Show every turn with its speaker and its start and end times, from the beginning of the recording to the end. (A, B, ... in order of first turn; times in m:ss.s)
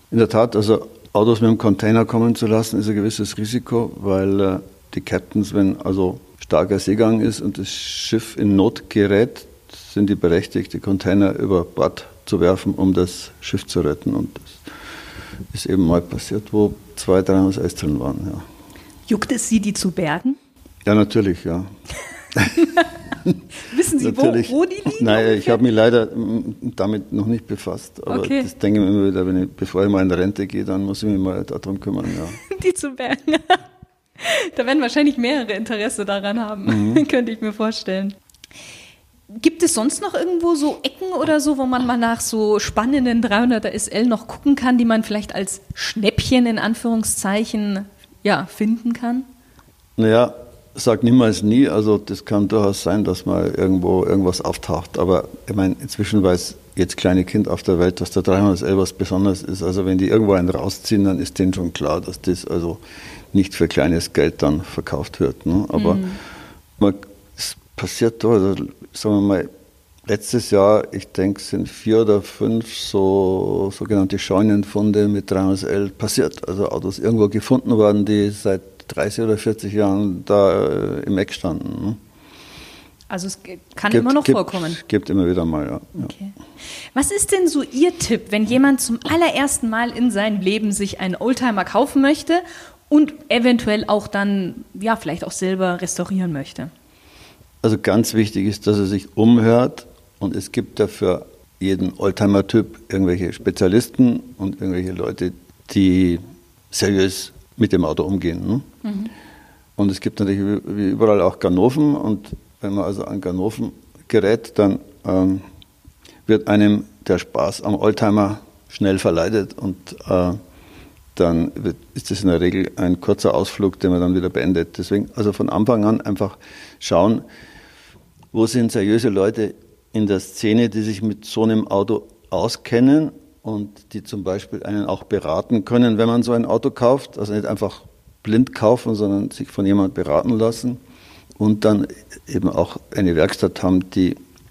0:00.1-0:14.7 A
0:15.5-0:18.4 A
0:19.1-0:20.4 B
0:20.8-0:21.7 A
0:22.3-0:22.7 A
0:22.6-0:22.9 B
0:23.6-0:25.6 B
0:24.0-0:32.4 A
0:28.1-0:28.5 B
0:32.4-0:33.6 B
0:34.2-0:38.2 B
0:36.7-0:37.0 A
0:39.3-0:49.3 B
0:50.0-1:02.8 A
1:03.3-1:06.1 A
1:05.8-1:06.2 B
1:06.8-1:09.5 A
1:10.1-1:22.0 A
1:23.1-1:24.8 B
1:23.9-1:26.1 A
1:26.0-1:26.4 B
1:26.9-1:36.7 B
1:37.6-1:46.2 A
1:46.7-1:48.7 A
1:48.8-1:49.1 B
1:49.8-1:55.4 A
1:56.3-2:00.4 A
2:01.2-2:07.2 A
2:08.3-2:20.8 A
2:21.4-2:24.2 A